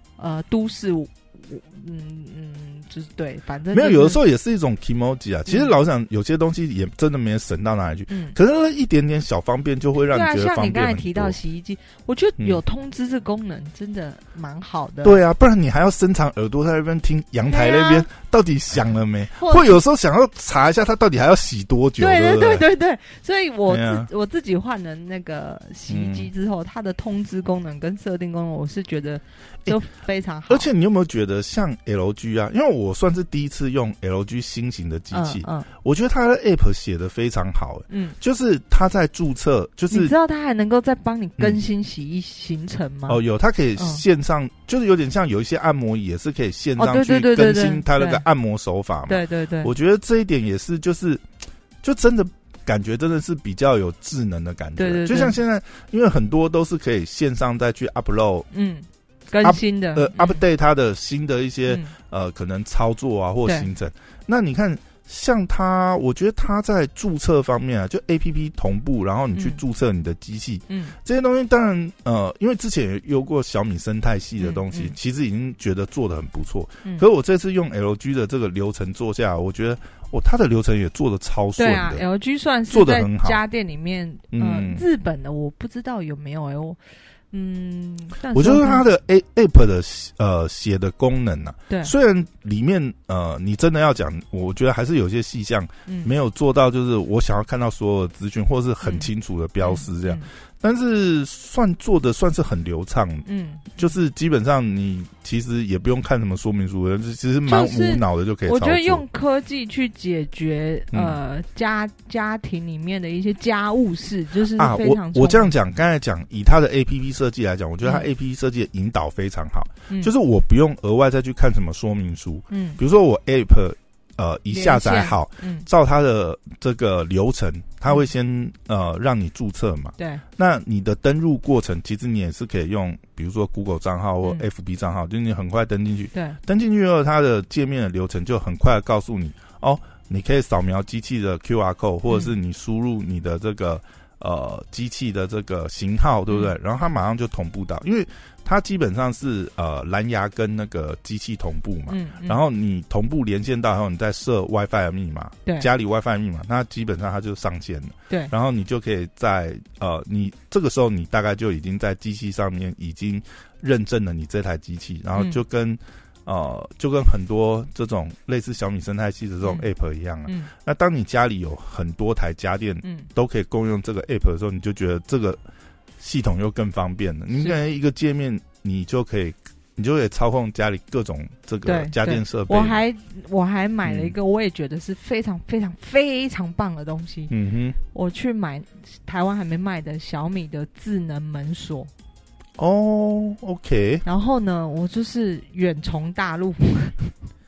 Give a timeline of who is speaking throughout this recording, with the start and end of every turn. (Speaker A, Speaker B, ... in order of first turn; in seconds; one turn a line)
Speaker A: 0.2-4.2
Speaker B: 3.7-11.3
Speaker A: 8.1-8.3
Speaker A: 10.1-15.2
Speaker B: 15.0-22.7
Speaker A: 17.4-18.1
Speaker A: 19.4-19.8
Speaker A: 22.0-30.7
Speaker B: 23.7-24.1
Speaker B: 25.9-26.3
Speaker B: 30.5-40.1
Speaker A: 35.1-35.7
Speaker A: 37.9-38.1
Speaker A: 39.9-43.2
Speaker B: 43.1-51.2
Speaker A: 43.8-44.0
Speaker A: 46.8-48.2
Speaker A: 49.1-49.7
Speaker B: 51.8-58.5
Speaker A: 54.8-55.4
Speaker A: 58.5-60.4
Speaker B: 59.4-82.0
Speaker A: 61.7-61.9
Speaker A: 69.3-69.6
Speaker A: 70.7-70.9
Speaker A: 74.4-74.9
Speaker A: 81.6-86.8
Speaker B: 82.7-83.4
Speaker B: 84.3-84.8
Speaker A: 87.3-88.8
Speaker B: 88.3-103.2
Speaker A: 98.8-99.1
Speaker A: 99.6-100.3
Speaker A: 103.2-103.9
Speaker B: 103.8-109.0
Speaker A: 107.5-115.5
Speaker B: 110.9-111.2
Speaker B: 114.5-175.4
Speaker A: 117.8-118.1
Speaker A: 122.5-122.8
Speaker A: 124.5-125.7
Speaker A: 130.0-130.2
Speaker A: 136.1-136.4
Speaker A: 151.9-152.4
Speaker A: 165.1-165.4
Speaker A: 172.8-173.1
Speaker B: 176.0-182.8
Speaker A: 181.6-187.3
Speaker B: 183.8-184.2
Speaker B: 187.3-187.8
Speaker A: 187.9-191.9
Speaker B: 192.6-194.0
Speaker A: 194.0-197.1